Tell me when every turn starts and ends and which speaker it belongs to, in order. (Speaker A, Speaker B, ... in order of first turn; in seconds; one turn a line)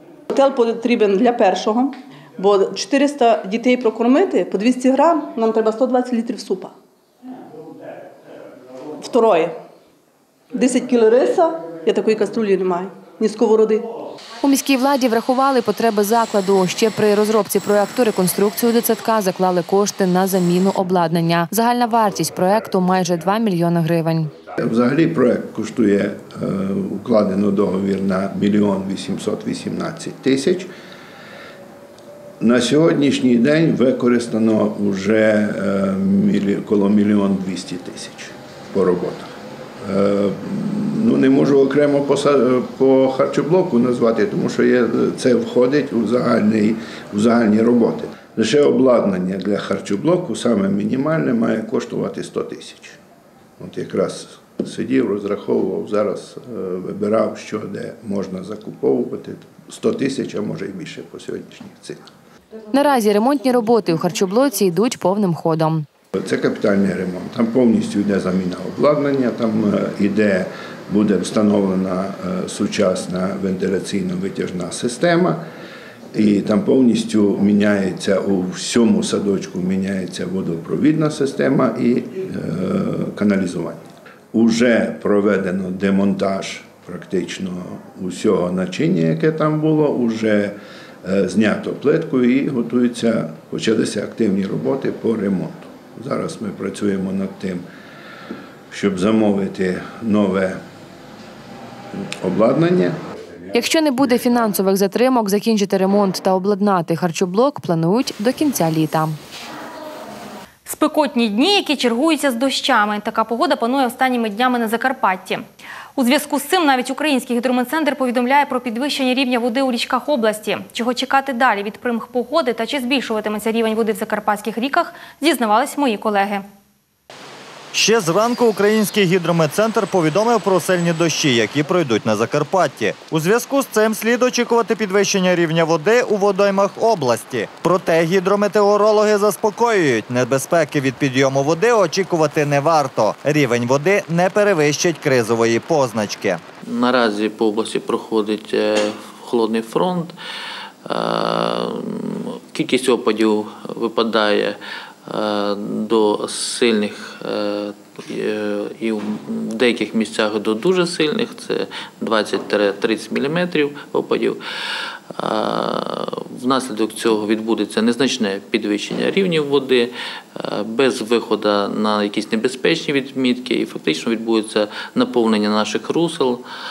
Speaker A: 0.3-6.7
Speaker A: 9.0-9.5
Speaker A: 10.5-13.9
Speaker B: 14.4-24.3
Speaker C: 24.6-30.7
Speaker C: 32.4-53.0
Speaker C: 53.6-62.1
Speaker B: 62.7-65.8
Speaker C: 66.1-75.4
Speaker C: 76.1-97.6
Speaker C: 98.7-100.6
Speaker C: 102.2-103.0
Speaker B: 103.5-109.2
Speaker D: 110.7-115.4
Speaker D: 116.0-126.4
Speaker E: 127.7-146.4
Speaker F: 146.6-150.1
Speaker F: 150.8-164.4
Speaker F: 165.1-176.4